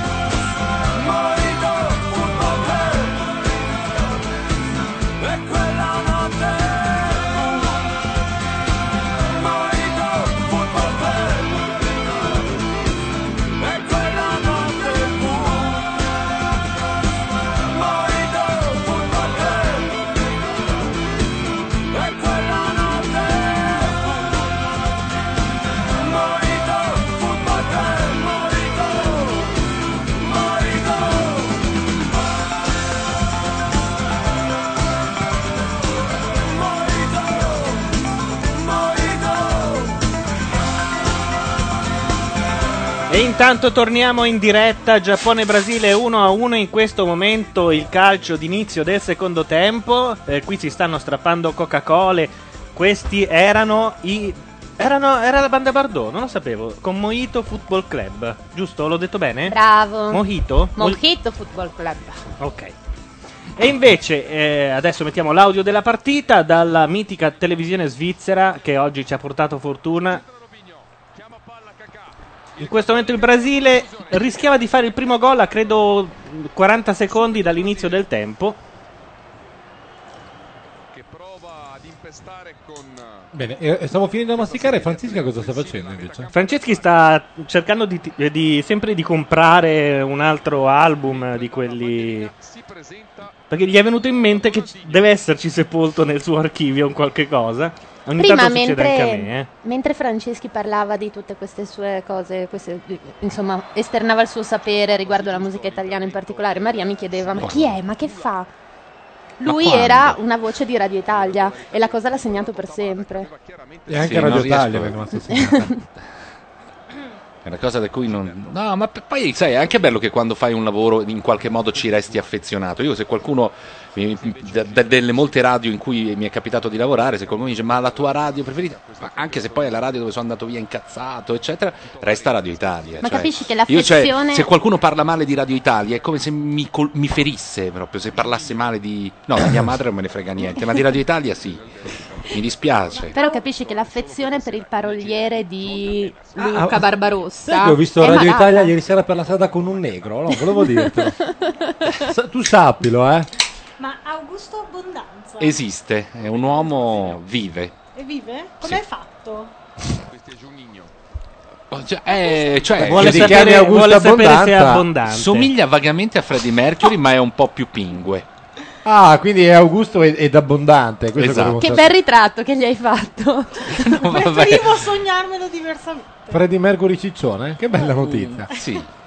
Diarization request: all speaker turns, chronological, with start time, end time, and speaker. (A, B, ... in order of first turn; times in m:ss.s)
0:00.9-0:03.3 A
0:05.2-0:07.8 A
0:09.3-0:11.6 A
0:13.6-0:15.9 A
0:17.7-0:20.0 A
0:21.9-0:24.4 A
0:26.0-0:29.5 A
0:30.2-0:31.5 A
0:36.4-0:37.9 A
0:38.5-0:40.0 A
0:43.1-0:59.6 B
0:59.5-1:02.2 C
1:00.1-1:01.0 B
1:02.4-1:02.7 B
1:03.6-1:10.2 B
1:10.1-1:15.0 D
1:12.6-1:18.6 B
1:15.6-1:15.9 D
1:16.9-1:18.1 D
1:20.9-1:23.3 D
1:23.3-1:26.3 E
1:23.9-1:27.2 D
1:26.3-1:32.3 B
1:30.8-1:35.2 D
1:33.5-1:39.5 B
1:38.2-1:48.5 C
1:44.6-1:48.3 D
1:47.4-1:47.7 F
1:49.4-1:53.3 C
1:49.4-1:50.2 F
1:51.0-1:55.1 D
1:53.9-1:55.7 E
1:54.0-1:55.1 F
1:55.3-1:55.8 C
1:57.4-2:21.6 F
1:57.8-1:58.6 D
1:59.6-2:00.0 D
2:01.4-2:02.4 D
2:04.0-2:05.6 D
2:07.0-2:10.1 D
2:11.8-2:13.3 D
2:13.0-2:14.5 C
2:18.1-2:18.8 D
2:21.2-2:27.5 D
2:22.3-2:23.2 F
2:23.1-2:28.7 C
2:26.4-2:26.8 E
2:27.4-2:31.2 E
2:28.9-2:30.1 D
2:30.3-2:32.1 C
2:32.0-2:33.3 E
2:33.8-2:35.6 G
2:35.4-2:37.7 F
2:36.2-2:37.2 D
2:37.9-2:39.5 G
2:40.1-2:40.9 D
2:41.7-2:43.6 F
2:42.2-2:42.9 D
2:42.8-2:44.9 E
2:42.9-2:45.5 B
2:45.1-2:48.3 F
2:48.8-2:52.0 E
2:51.2-2:51.7 F
2:51.6-2:54.1 C
2:53.7-2:54.8 F
2:54.0-2:56.4 G
2:56.3-2:58.5 E
2:57.8-2:58.8 F